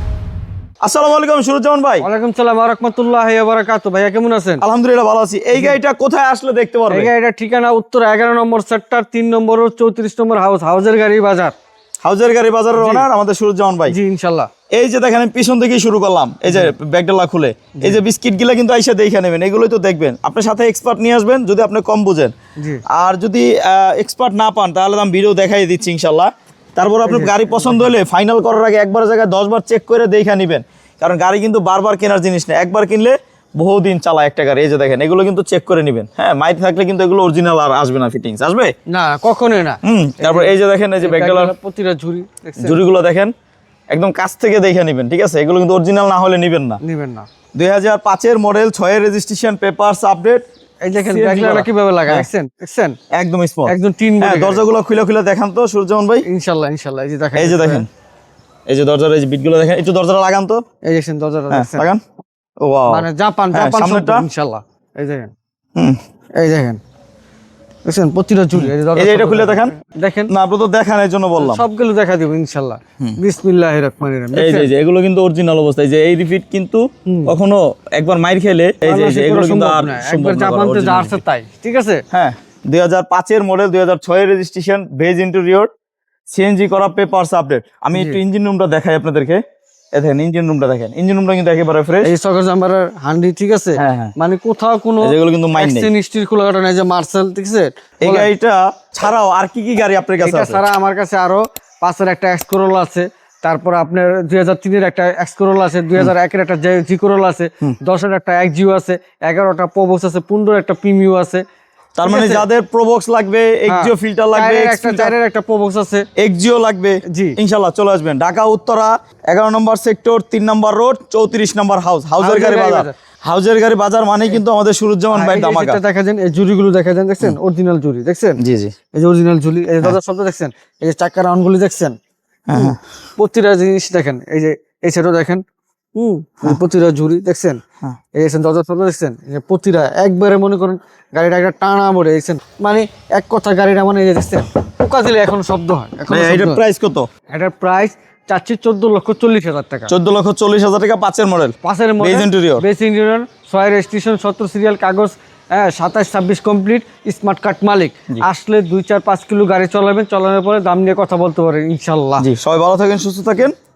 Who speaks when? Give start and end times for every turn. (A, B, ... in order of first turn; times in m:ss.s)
0:00.8-0:02.1 A
0:02.0-0:04.6 B
0:04.6-0:07.1 A
0:06.9-0:11.5 B
0:12.0-0:14.0 A
0:12.8-0:13.1 B
0:13.9-0:14.5 B
0:14.7-0:22.3 A
0:22.6-0:22.8 B
0:22.9-0:38.7 A
0:27.0-0:27.8 B
0:38.9-0:42.8 B
0:39.8-0:41.5 A
0:42.6-0:43.3 A
0:43.9-0:46.8 A
0:46.8-0:47.3 B
0:47.6-0:50.4 A
0:50.8-0:53.0 B
0:51.1-0:52.3 A
0:53.1-0:56.3 A
0:53.7-0:54.6 B
0:56.3-0:57.9 B
0:57.4-0:57.9 A
0:58.7-1:00.6 A
1:00.8-1:01.9 B
1:01.5-1:02.0 A
1:02.6-1:04.2 A
1:02.9-1:05.3 B
1:06.4-1:06.8 B
1:07.9-1:10.3 B
1:08.6-1:09.7 A
1:10.3-1:11.6 A
1:11.4-1:14.7 B
1:14.3-1:21.2 A
1:17.1-1:17.3 B
1:18.8-1:22.0 B
1:22.1-1:25.7 A
1:26.3-1:29.4 A
1:27.9-1:28.2 B
1:29.9-1:32.1 A
1:32.0-1:38.3 B
1:33.8-1:34.1 A
1:35.0-1:35.9 A
1:38.0-1:40.6 A
1:40.2-1:51.4 B
1:52.0-1:55.1 A
1:52.0-1:52.5 B
1:53.7-1:56.1 B
1:56.2-2:05.8 A
1:57.1-1:57.4 B
2:02.2-2:02.9 B
2:05.1-2:08.4 B
2:08.4-2:08.8 A
2:08.9-2:12.0 B
2:12.5-2:12.8 A
2:12.5-2:15.4 B
2:16.0-2:17.6 B
2:18.2-2:26.6 B
2:26.1-2:27.1 A
2:27.3-2:29.9 B
2:29.9-2:32.6 A
2:31.6-2:42.3 B
2:42.2-2:43.5 A